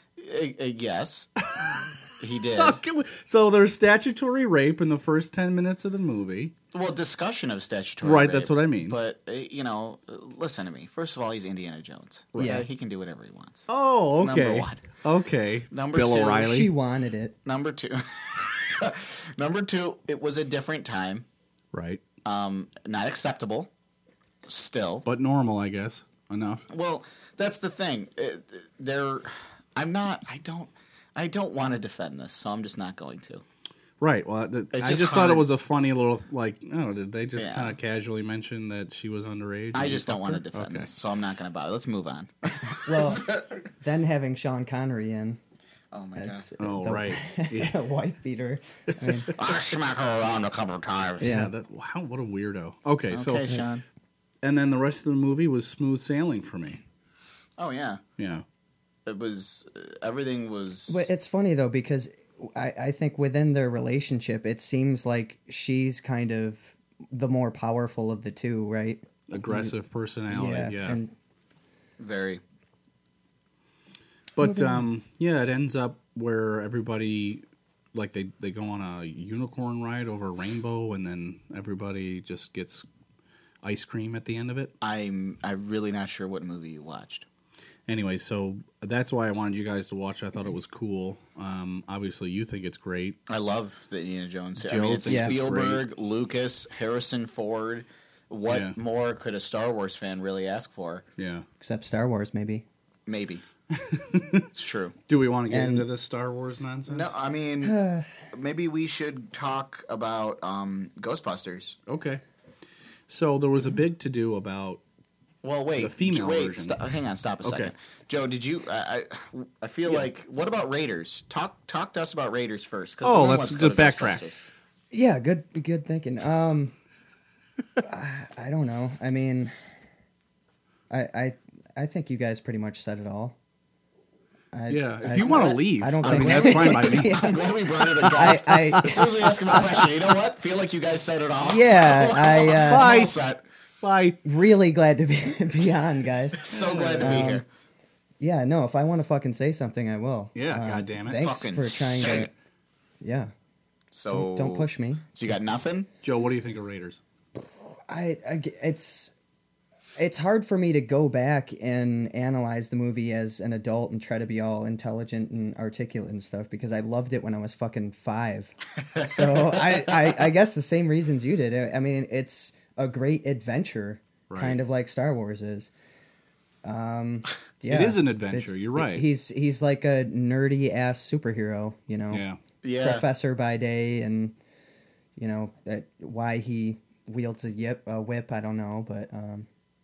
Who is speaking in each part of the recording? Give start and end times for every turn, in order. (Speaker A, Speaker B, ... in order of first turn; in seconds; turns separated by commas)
Speaker A: 0.2-1.3, Speaker B: 1.5-1.9, Speaker A: 2.2-2.8, Speaker B: 2.5-6.5, Speaker A: 6.7-13.7, Speaker B: 8.0-9.0, Speaker B: 12.3-12.6, Speaker C: 12.3-12.6, Speaker B: 13.7-16.7, Speaker A: 14.2-14.9, Speaker A: 15.7-16.6, Speaker C: 16.3-17.4, Speaker A: 17.4-21.2, Speaker B: 21.7-22.0, Speaker A: 22.2-23.7, Speaker A: 24.4-25.0, Speaker B: 25.0-26.6, Speaker A: 26.7-33.4, Speaker B: 34.0-40.9, Speaker A: 34.7-35.5, Speaker A: 37.4-37.8, Speaker A: 39.7-43.6, Speaker C: 42.6-45.4, Speaker A: 45.9-46.5, Speaker C: 46.2-49.3, Speaker B: 46.6-47.8, Speaker A: 49.3-51.4, Speaker C: 51.2-51.5, Speaker B: 51.2-53.5, Speaker A: 53.1-53.8, Speaker B: 54.4-56.8, Speaker A: 57.6-58.0, Speaker B: 58.2-58.4, Speaker A: 59.0-61.0, Speaker C: 60.9-69.7, Speaker B: 69.3-71.0, Speaker C: 70.3-71.1, Speaker A: 72.0-72.4, Speaker B: 74.3-77.4, Speaker C: 74.4-74.9, Speaker B: 77.9-82.8, Speaker B: 83.6-84.7, Speaker A: 84.8-87.2, Speaker B: 87.9-93.2, Speaker A: 93.3-101.0, Speaker B: 94.6-95.8, Speaker C: 95.0-95.3, Speaker B: 98.5-98.8, Speaker B: 101.2-101.5, Speaker C: 101.6-102.6, Speaker A: 103.1-103.4, Speaker B: 103.7-104.5, Speaker A: 104.5-105.0, Speaker B: 105.1-107.1, Speaker C: 105.5-105.9, Speaker A: 106.9-107.8, Speaker C: 107.6-108.1, Speaker A: 108.3-111.8, Speaker B: 111.9-112.2, Speaker B: 113.1-114.8, Speaker A: 115.4-124.4, Speaker B: 115.8-116.8, Speaker B: 117.4-117.7, Speaker B: 123.0-124.3, Speaker C: 124.9-126.7, Speaker C: 127.8-129.5, Speaker C: 130.9-133.3, Speaker C: 134.5-139.2, Speaker B: 134.7-139.7, Speaker A: 135.3-143.4, Speaker C: 141.4-143.0, Speaker B: 142.5-143.2, Speaker B: 143.8-144.2, Speaker C: 144.2-147.4, Speaker A: 146.3-147.4, Speaker B: 146.5-147.3, Speaker C: 148.2-152.3, Speaker B: 150.3-151.2, Speaker A: 151.1-152.3, Speaker C: 153.0-153.3, Speaker A: 153.9-155.9, Speaker C: 154.1-155.1, Speaker B: 156.0-157.0, Speaker C: 157.9-159.1, Speaker C: 160.0-175.7, Speaker A: 168.9-170.1, Speaker B: 174.3-174.6, Speaker C: 176.6-182.2, Speaker B: 177.7-179.1, Speaker B: 182.1-182.4, Speaker A: 182.6-183.1, Speaker C: 182.8-184.3, Speaker C: 185.2-189.5